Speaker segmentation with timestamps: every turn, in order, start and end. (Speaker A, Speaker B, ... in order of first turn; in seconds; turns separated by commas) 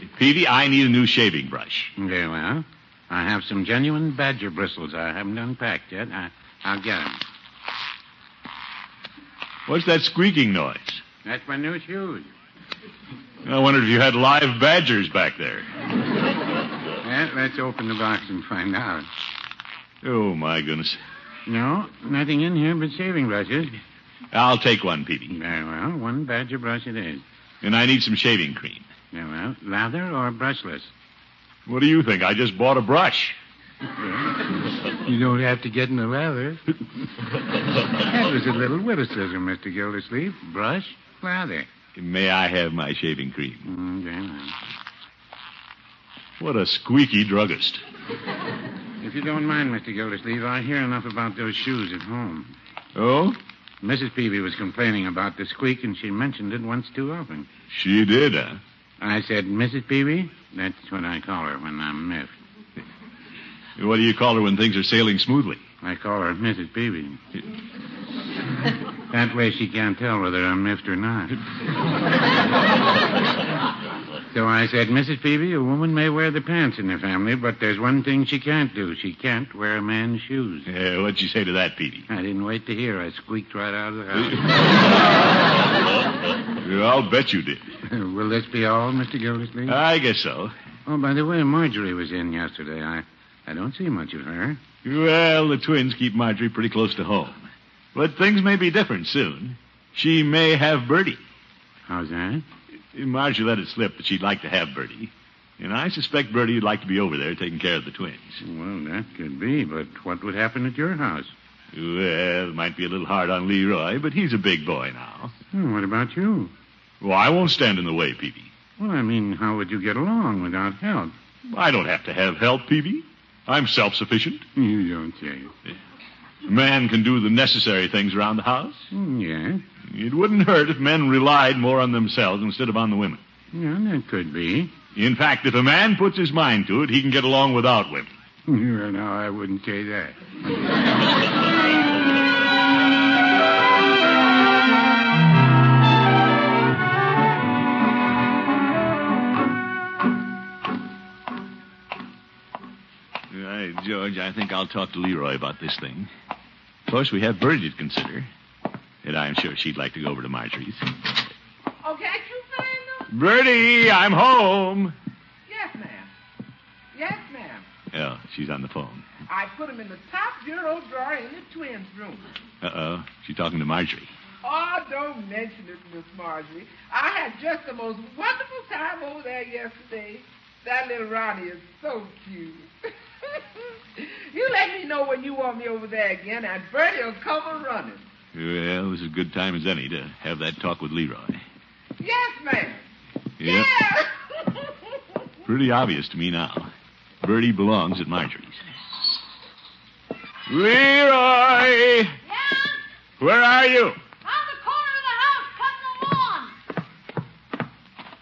Speaker A: 0.1-1.9, Speaker B: 2.0-7.2, Speaker A: 9.7-11.0, Speaker B: 11.2-12.3, Speaker A: 13.4-15.7, Speaker B: 17.0-19.1, Speaker A: 20.0-21.0, Speaker B: 21.5-23.8, Speaker A: 24.3-25.3, Speaker B: 25.3-27.2, Speaker A: 27.6-28.9, Speaker B: 29.1-30.9, Speaker A: 31.6-33.4, Speaker B: 34.0-34.4, Speaker B: 35.0-36.7, Speaker B: 38.0-41.7, Speaker A: 42.0-43.6, Speaker B: 43.6-44.5, Speaker A: 46.4-47.8, Speaker B: 49.0-52.5, Speaker A: 52.9-53.4, Speaker B: 53.8-57.5, Speaker A: 57.7-58.6, Speaker B: 59.0-62.3, Speaker A: 63.8-65.6, Speaker B: 65.8-67.2, Speaker B: 69.1-71.4, Speaker B: 74.3-80.7, Speaker A: 80.7-82.1, Speaker B: 82.1-84.5, Speaker A: 84.2-85.2, Speaker A: 86.6-87.7, Speaker B: 87.9-89.8, Speaker A: 89.7-90.5, Speaker B: 90.8-94.6, Speaker A: 94.8-97.4, Speaker A: 97.9-101.2, Speaker B: 101.9-102.4, Speaker A: 102.9-108.4, Speaker B: 108.4-111.3, Speaker A: 111.7-115.3, Speaker B: 115.5-116.5, Speaker A: 117.0-118.5, Speaker B: 118.8-121.1, Speaker A: 121.5-124.4, Speaker B: 124.5-125.5, Speaker A: 126.4-128.9, Speaker B: 128.9-129.6, Speaker A: 129.9-133.2, Speaker B: 133.5-134.7, Speaker A: 134.9-138.1, Speaker B: 138.5-140.1, Speaker A: 153.3-156.1, Speaker A: 156.9-158.3, Speaker A: 159.0-160.9, Speaker C: 161.8-163.1, Speaker A: 163.1-164.9, Speaker C: 165.5-166.1, Speaker C: 166.9-167.7, Speaker A: 167.9-169.1, Speaker C: 169.3-172.3, Speaker A: 172.6-174.1, Speaker C: 174.4-182.7, Speaker C: 183.2-188.0, Speaker A: 188.3-191.4, Speaker C: 192.0-192.8, Speaker A: 193.4-193.8, Speaker C: 193.4-194.1, Speaker A: 195.4-196.7, Speaker A: 197.2-198.6, Speaker A: 200.5-202.1, Speaker D: 202.3-202.8, Speaker A: 203.2-204.0, Speaker D: 204.2-206.5